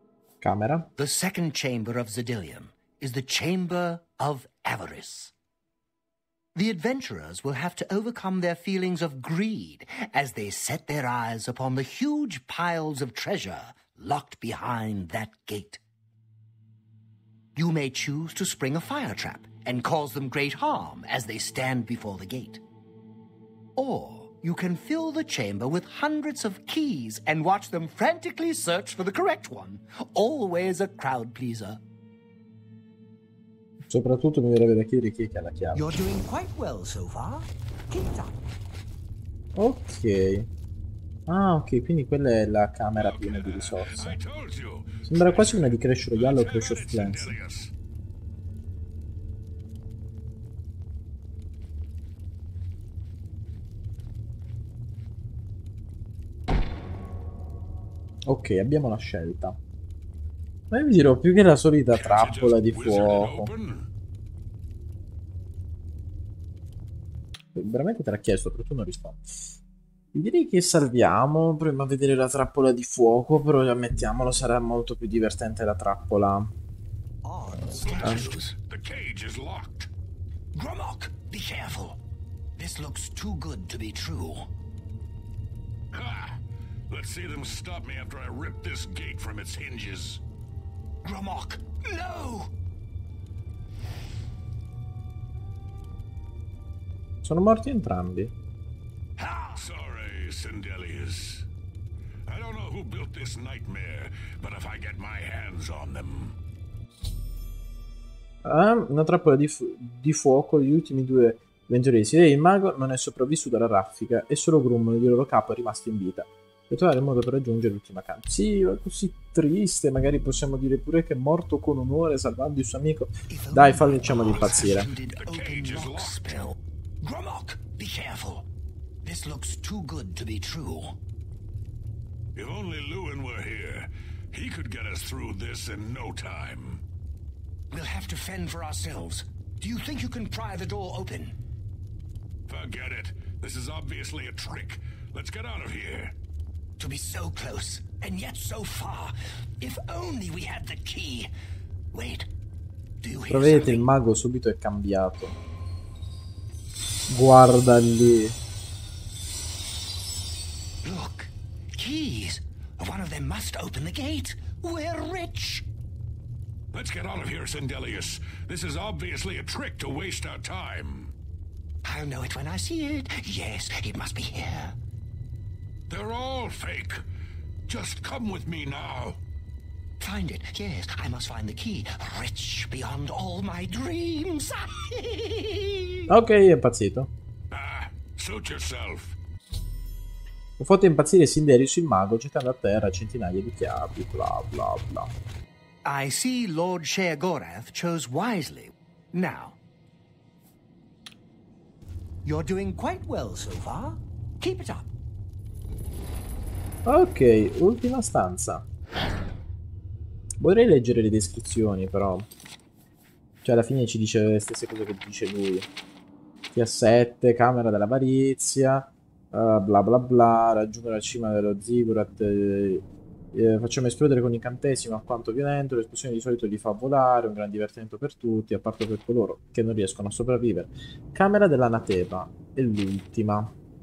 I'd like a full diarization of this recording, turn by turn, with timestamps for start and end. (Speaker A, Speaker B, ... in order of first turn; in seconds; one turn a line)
Speaker A: 0.4-0.9
Speaker B: 1.0-5.3
Speaker B: 6.5-15.8
Speaker B: 17.6-22.6
Speaker B: 23.8-31.8
Speaker A: 33.9-35.9
Speaker B: 35.7-38.4
Speaker A: 39.5-40.5
Speaker A: 41.3-44.2
Speaker C: 42.9-47.7
Speaker A: 45.0-47.4
Speaker A: 58.2-59.6
Speaker A: 60.7-63.5
Speaker C: 61.9-63.9
Speaker A: 67.5-69.5
Speaker A: 70.1-76.5
Speaker B: 77.2-78.5
Speaker C: 77.8-79.9
Speaker A: 78.0-78.3
Speaker B: 80.5-82.0
Speaker B: 82.6-84.5
Speaker C: 85.9-86.4
Speaker C: 86.9-90.2
Speaker B: 91.0-92.5
Speaker A: 97.2-98.3
Speaker C: 99.2-101.5
Speaker C: 102.3-106.3
Speaker A: 108.4-124.9
Speaker B: 123.3-128.5
Speaker C: 124.1-126.5
Speaker B: 129.0-131.0
Speaker C: 132.3-136.8
Speaker B: 137.7-141.3
Speaker C: 142.5-146.1
Speaker B: 146.8-151.3
Speaker B: 151.9-152.3
Speaker B: 153.0-153.9
Speaker A: 153.3-155.3
Speaker A: 157.1-158.4
Speaker B: 160.8-165.7
Speaker C: 166.7-171.1
Speaker B: 171.8-174.8
Speaker C: 175.9-177.0
Speaker C: 177.7-179.2
Speaker B: 180.0-186.1
Speaker A: 186.1-187.1
Speaker C: 187.5-189.2
Speaker A: 190.6-195.1
Speaker B: 195.8-199.6
Speaker B: 202.2-204.9
Speaker A: 206.8-208.7
Speaker A: 210.4-212.3
Speaker A: 213.4-215.7
Speaker A: 216.5-233.5